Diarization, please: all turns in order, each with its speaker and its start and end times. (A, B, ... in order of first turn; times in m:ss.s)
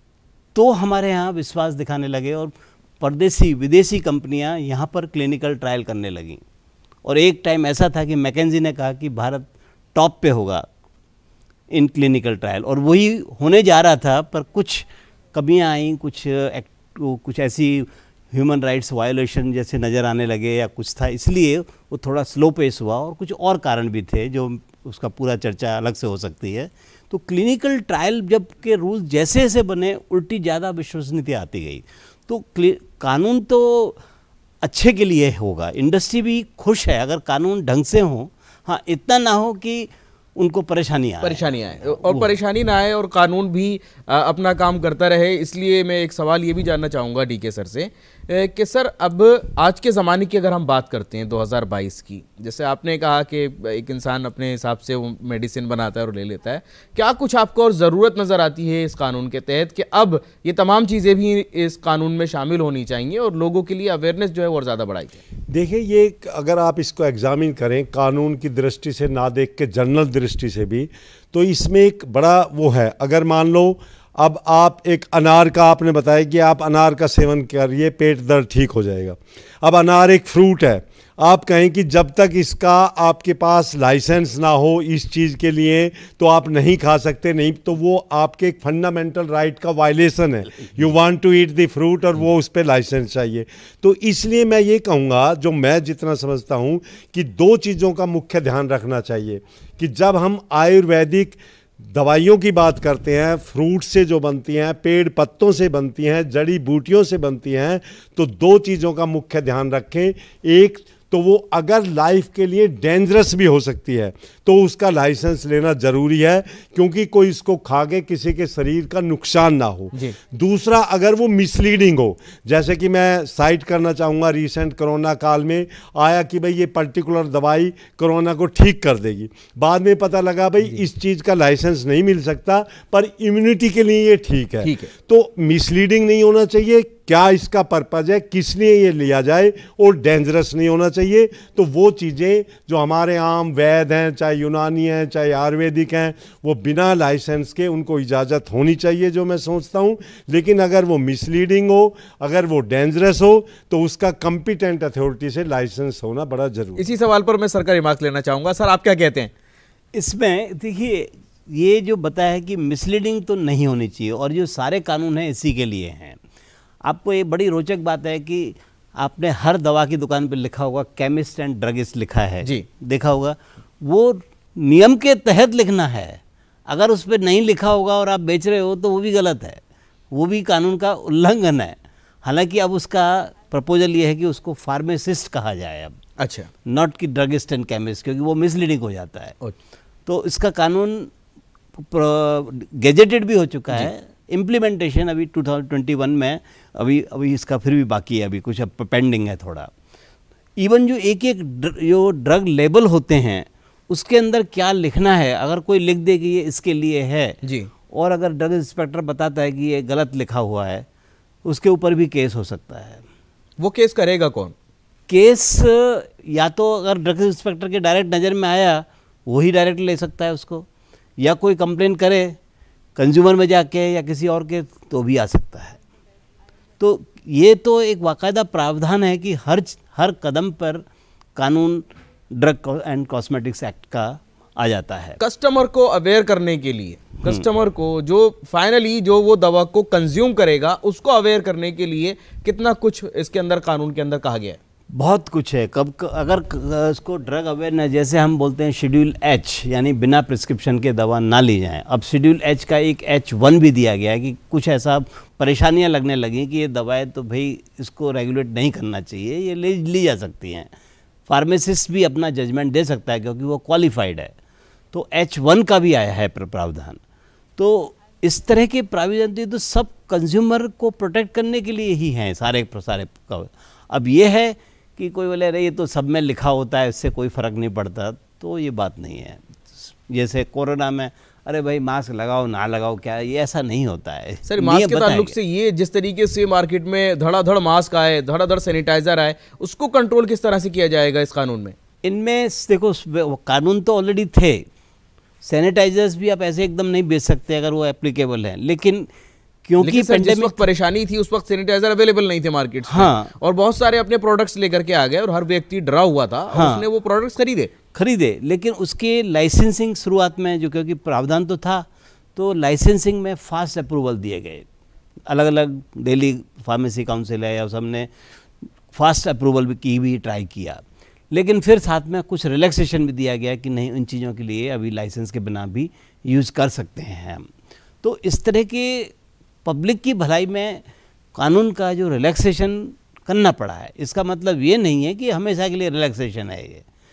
0:00.6-0:06.4 A
0:07.0-0:10.7 A
0:11.7-0:34.0 A
0:34.6-0:42.3 A
0:41.2-1:05.2 B
1:05.5-2:36.9 C
2:14.6-2:14.9 B
2:36.8-2:39.3 B
2:39.9-2:46.2 A
2:46.8-3:06.0 A
3:06.2-3:06.5 B
3:06.6-3:09.4 A
3:10.1-3:11.1 A
3:11.8-3:19.7 A
3:20.6-3:27.4 A
3:27.4-3:27.7 B
3:27.9-3:30.9 A
3:31.5-3:33.0 A
3:33.6-3:34.5 B
3:35.1-3:40.7 A
3:41.2-3:42.4 A
3:43.0-3:45.8 A
3:46.8-3:50.8 A
3:51.4-3:55.2 A
3:55.2-4:04.6 B
4:04.9-4:20.7 A
4:21.3-4:24.4 A
4:24.9-4:27.0 A
4:27.6-4:45.3 A
4:44.5-4:51.8 B
4:52.0-4:54.7 A
4:55.4-4:59.1 A
4:59.7-5:00.6 A
4:59.8-5:07.7 B
5:02.9-5:03.3 A
5:06.5-5:06.9 A
5:07.9-5:14.7 A
5:15.3-5:18.1 A
5:18.9-5:27.5 A
5:28.0-5:29.1 A
5:29.6-5:30.8 A
5:31.4-5:36.8 A